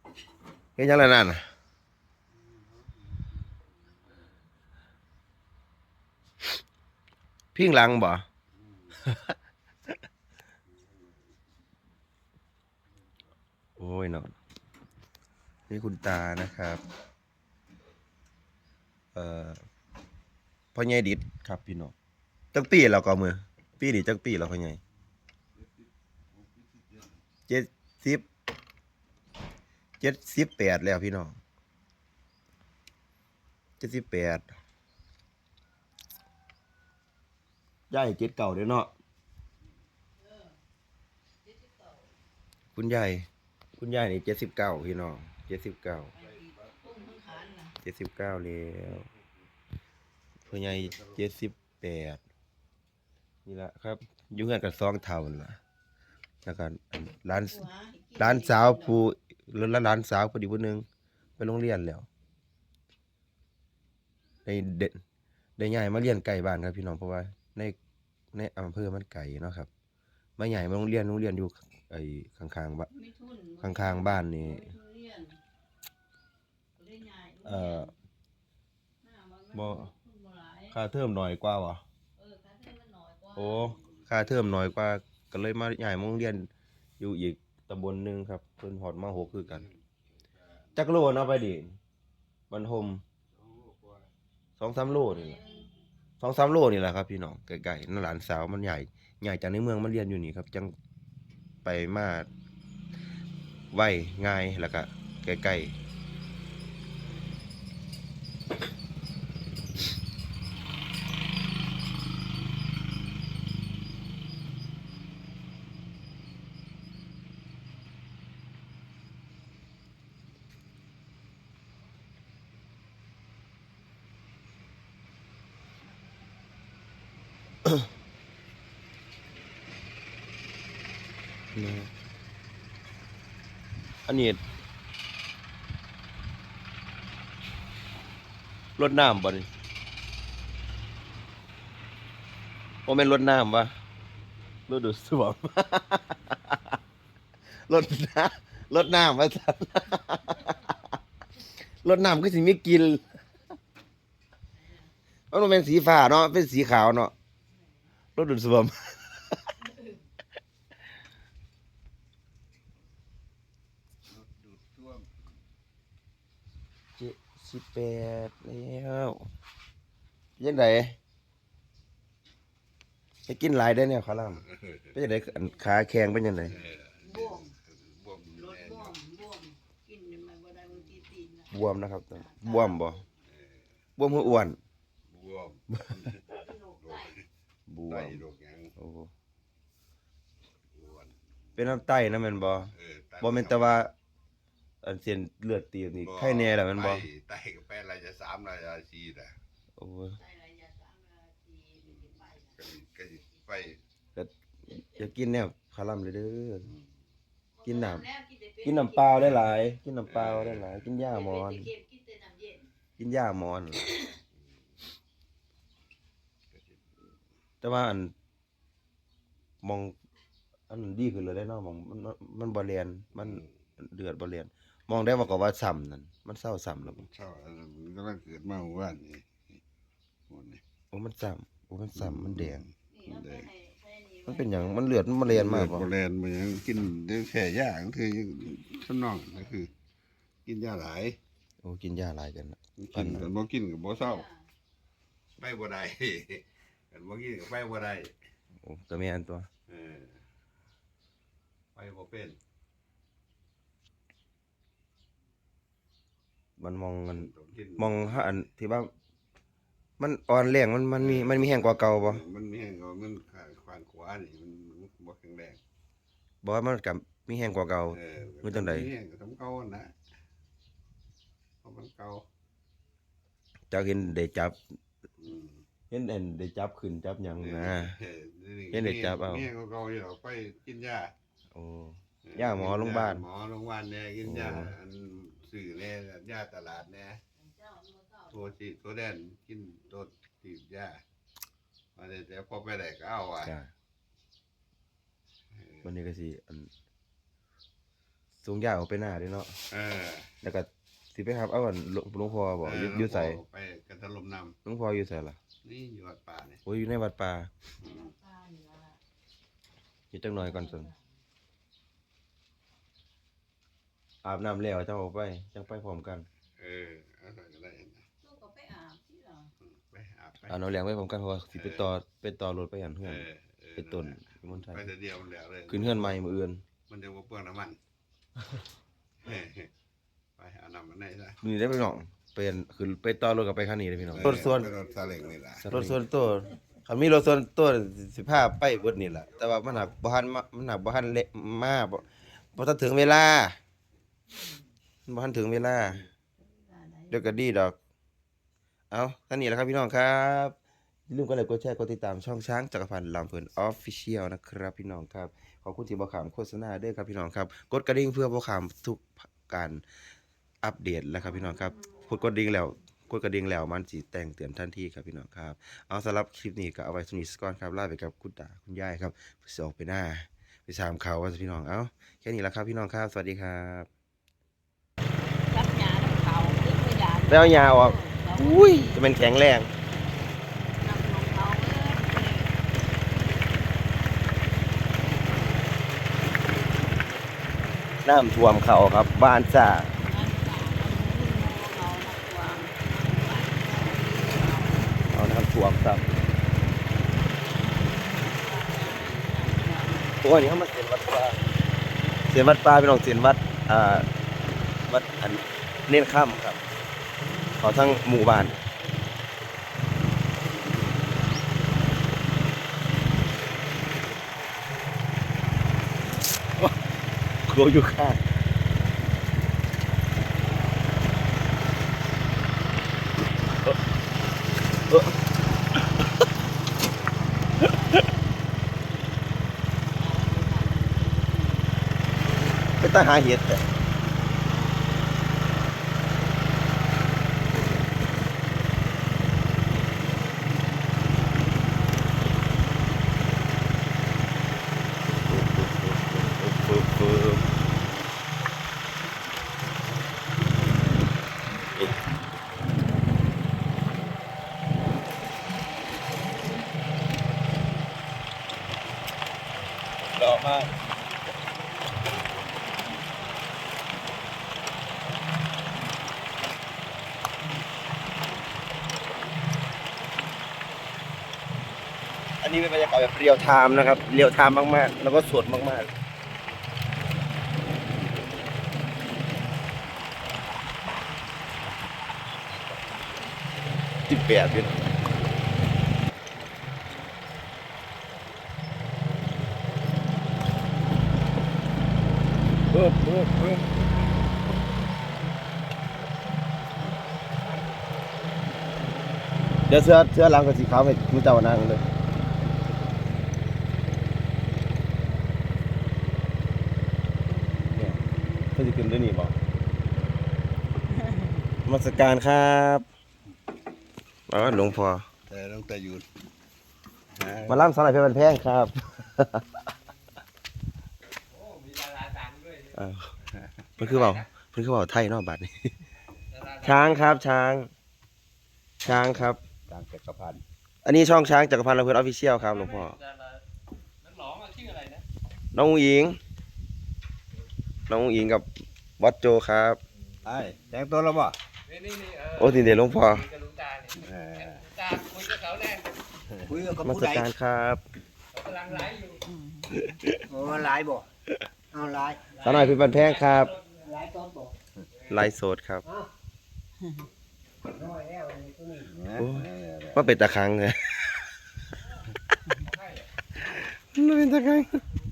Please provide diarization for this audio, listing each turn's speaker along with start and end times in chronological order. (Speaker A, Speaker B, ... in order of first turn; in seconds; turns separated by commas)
Speaker A: 0.8-1.5, Speaker B: 2.3-3.7, Speaker A: 7.5-8.2, Speaker B: 8.6-8.9, Speaker A: 9.0-9.3, Speaker B: 10.7-11.2, Speaker A: 13.8-14.3, Speaker A: 15.7-16.8, Speaker A: 19.1-19.6, Speaker A: 20.7-21.9, Speaker A: 22.5-24.8, Speaker B: 25.6-25.8, Speaker B: 26.4-27.1, Speaker A: 27.5-28.2, Speaker A: 30.0-31.4, Speaker A: 33.8-34.5, Speaker A: 37.9-38.9, Speaker C: 41.6-42.0, Speaker A: 42.8-46.1, Speaker C: 46.1-47.7, Speaker B: 46.2-46.5, Speaker A: 47.8-49.1, Speaker A: 50.5-52.2, Speaker B: 50.5-51.2, Speaker A: 53.5-55.6, Speaker A: 56.5-57.7, Speaker C: 57.5-59.0, Speaker A: 58.2-60.9, Speaker A: 61.4-62.1, Speaker A: 64.5-65.0, Speaker A: 65.6-67.8, Speaker A: 68.3-69.7, Speaker A: 70.4-72.9, Speaker C: 72.9-75.4, Speaker A: 73.6-74.7, Speaker C: 76.8-77.9, Speaker A: 77.5-77.9, Speaker C: 79.0-80.8, Speaker A: 79.5-79.9, Speaker A: 80.7-81.8, Speaker C: 82.2-83.7, Speaker A: 83.3-89.7, Speaker B: 89.3-89.8, Speaker B: 90.4-91.0, Speaker A: 90.8-91.8, Speaker A: 92.5-93.0, Speaker B: 93.3-94.1, Speaker A: 94.6-95.4, Speaker C: 95.0-95.7, Speaker A: 96.2-100.7, Speaker A: 101.7-102.3, Speaker A: 103.7-105.8, Speaker A: 131.6-131.9, Speaker A: 134.1-134.4, Speaker A: 138.8-139.5, Speaker A: 142.9-143.7, Speaker A: 144.7-146.7, Speaker A: 147.7-150.8, Speaker A: 151.8-153.1, Speaker A: 155.3-157.1, Speaker A: 158.2-159.5, Speaker B: 164.1-165.1, Speaker A: 167.0-169.3, Speaker A: 170.4-171.0, Speaker A: 173.3-176.6, Speaker B: 174.5-174.9, Speaker B: 176.4-178.9, Speaker C: 177.1-177.5, Speaker C: 178.4-181.5, Speaker A: 181.5-183.0, Speaker C: 182.2-182.8, Speaker B: 183.3-183.5, Speaker A: 184.0-184.6, Speaker B: 185.1-186.2, Speaker C: 186.4-187.1, Speaker B: 186.8-187.2, Speaker A: 187.7-188.2, Speaker B: 187.9-188.7, Speaker A: 188.8-189.1, Speaker B: 190.8-191.1, Speaker A: 191.6-193.9, Speaker B: 192.8-193.7, Speaker A: 194.8-197.1, Speaker B: 196.0-199.3, Speaker A: 199.8-200.2, Speaker C: 200.2-202.6, Speaker B: 202.6-203.8, Speaker A: 204.2-206.7, Speaker C: 207.6-209.0, Speaker A: 207.7-208.1, Speaker A: 208.6-211.7, Speaker B: 210.1-210.8, Speaker C: 211.2-212.6, Speaker A: 213.0-213.9, Speaker A: 217.6-218.1, Speaker A: 219.6-219.9, Speaker A: 220.7-227.1, Speaker B: 223.2-223.5, Speaker B: 226.9-229.3, Speaker B: 230.3-230.6, Speaker A: 230.9-232.7, Speaker B: 232.0-233.5, Speaker C: 232.9-234.8, Speaker A: 234.3-235.9, Speaker B: 235.3-239.7, Speaker B: 240.5-241.2, Speaker A: 241.6-243.3, Speaker B: 242.8-244.3, Speaker C: 244.1-244.4, Speaker B: 245.4-248.1, Speaker A: 248.6-249.5, Speaker B: 249.7-250.2, Speaker B: 251.8-252.4, Speaker A: 256.6-258.9, Speaker B: 257.1-258.4, Speaker A: 260.0-262.2, Speaker B: 261.0-265.6, Speaker A: 266.4-268.9, Speaker B: 267.9-269.9, Speaker B: 271.6-272.2, Speaker A: 273.7-274.6, Speaker B: 275.2-275.6, Speaker A: 275.9-278.0, Speaker B: 277.4-281.1, Speaker A: 278.7-279.5, Speaker A: 281.5-283.2, Speaker B: 282.2-287.2, Speaker A: 284.2-284.8, Speaker B: 288.3-291.0, Speaker B: 292.0-293.6, Speaker A: 293.4-293.7, Speaker B: 295.6-295.9, Speaker A: 295.8-296.7, Speaker A: 298.4-299.6, Speaker B: 299.7-300.3, Speaker A: 300.4-303.4, Speaker B: 302.6-304.6, Speaker A: 304.6-305.4, Speaker B: 305.6-306.6, Speaker A: 306.7-307.5, Speaker C: 307.9-309.0, Speaker A: 310.1-310.9, Speaker C: 310.4-310.9, Speaker A: 314.2-316.3, Speaker B: 316.6-318.0, Speaker C: 318.2-319.5, Speaker B: 319.8-320.6, Speaker A: 320.5-324.9, Speaker B: 321.6-321.9, Speaker B: 323.0-326.1, Speaker A: 325.7-326.6, Speaker B: 326.9-327.8, Speaker B: 329.2-329.7, Speaker B: 330.4-331.4, Speaker A: 331.4-334.7, Speaker B: 334.1-336.0, Speaker A: 335.6-343.6, Speaker A: 345.1-346.1, Speaker C: 346.4-347.4, Speaker A: 347.1-347.8, Speaker A: 348.9-350.6, Speaker A: 351.1-359.8, Speaker A: 360.6-373.9, Speaker C: 361.8-362.1, Speaker C: 375.5-379.0, Speaker A: 377.3-379.7, Speaker C: 380.8-382.6, Speaker A: 388.0-389.9, Speaker C: 390.0-395.1, Speaker A: 395.1-396.1, Speaker C: 398.0-400.2, Speaker A: 400.2-401.4, Speaker A: 402.3-404.1, Speaker A: 404.9-406.6, Speaker A: 407.6-408.6, Speaker A: 417.5-418.2, Speaker C: 430.0-431.2, Speaker A: 432.8-433.6, Speaker A: 445.3-447.4, Speaker A: 460.1-460.8, Speaker A: 472.4-475.9, Speaker A: 484.1-484.8, Speaker A: 492.7-493.6, Speaker A: 499.7-501.9, Speaker A: 507.7-509.4, Speaker C: 510.9-511.4, Speaker A: 511.6-512.9, Speaker A: 514.3-515.1, Speaker B: 514.4-514.7, Speaker B: 515.3-516.0, Speaker B: 517.1-517.7, Speaker A: 517.5-519.5, Speaker D: 521.3-522.7, Speaker A: 522.7-523.1, Speaker A: 523.8-525.7, Speaker D: 523.8-524.2, Speaker D: 526.4-527.1, Speaker A: 526.6-527.7, Speaker B: 528.8-530.4, Speaker A: 528.8-529.4, Speaker A: 530.9-533.0, Speaker D: 532.5-532.9, Speaker D: 534.0-535.0, Speaker A: 535.5-536.2, Speaker A: 537.9-538.5, Speaker A: 539.0-539.8, Speaker B: 540.2-541.4, Speaker D: 541.7-545.9, Speaker A: 542.4-543.3, Speaker B: 544.0-544.7, Speaker E: 546.5-547.3, Speaker A: 546.8-547.8, Speaker D: 548.4-549.1, Speaker C: 548.7-549.9, Speaker A: 549.9-550.2, Speaker E: 550.3-551.1, Speaker E: 551.7-552.4, Speaker D: 552.4-553.7, Speaker A: 552.4-553.6, Speaker E: 553.8-554.5, Speaker A: 555.1-555.9, Speaker E: 555.9-556.1, Speaker E: 557.7-558.9, Speaker B: 558.9-560.1, Speaker A: 559.2-561.3, Speaker A: 563.6-564.8